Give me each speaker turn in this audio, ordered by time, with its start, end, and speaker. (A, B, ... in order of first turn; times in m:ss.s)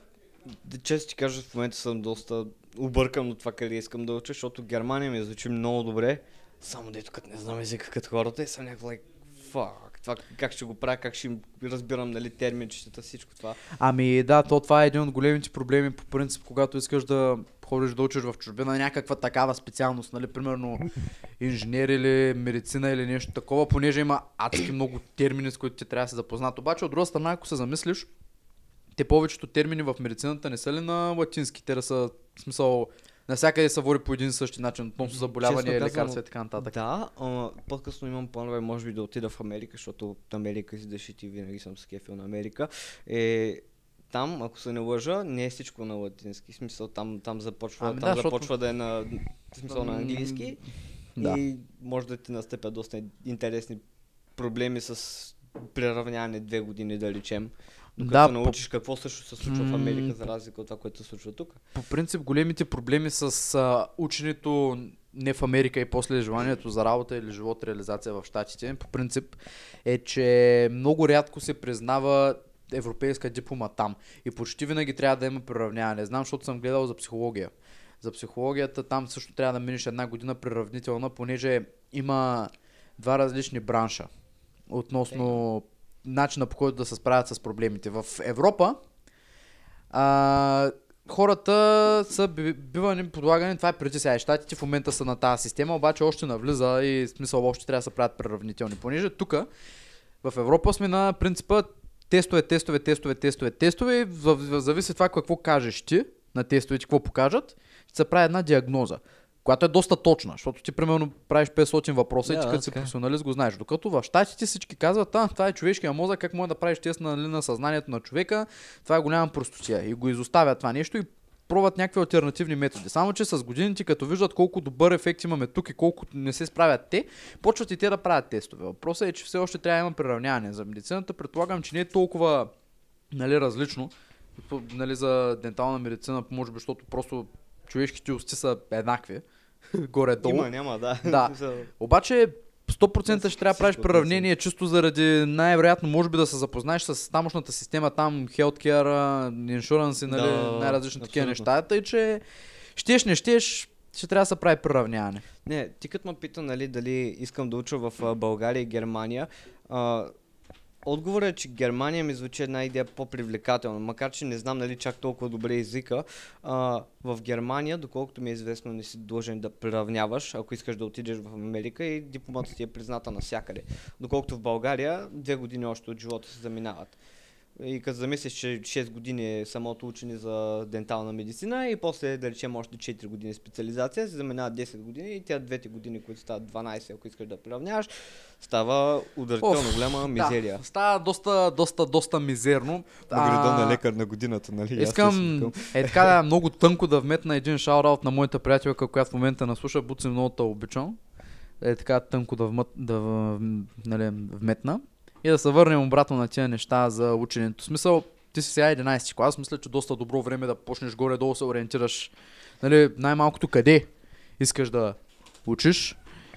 0:00.5-0:13.6 A
0:13.7-0:20.9 B
0:21.4-0:28.1 B
0:28.9-0:36.7 B
0:35.1-0:50.6 A
0:47.8-0:48.5 B
0:49.7-0:50.6 B
0:51.2-0:51.4 B
0:51.2-0:53.8 A
0:54.4-1:01.6 A
0:58.0-0:58.6 B
0:59.4-1:00.2 B
1:01.7-1:24.1 B
1:24.7-1:28.8 B
1:29.9-1:39.5 B
1:40.2-2:12.5 B
1:52.2-1:52.9 A
2:13.1-2:20.5 B
2:20.2-2:21.7 A
2:21.0-2:32.2 B
2:23.1-2:24.3 A
2:30.1-2:31.5 A
2:32.7-2:35.2 B
2:35.4-2:40.1 A
2:40.8-2:57.0 A
2:57.6-3:10.6 A
3:09.4-3:13.8 B
3:13.1-3:16.1 A
3:14.8-3:21.0 B
3:21.6-3:33.9 B
3:34.4-3:36.0 B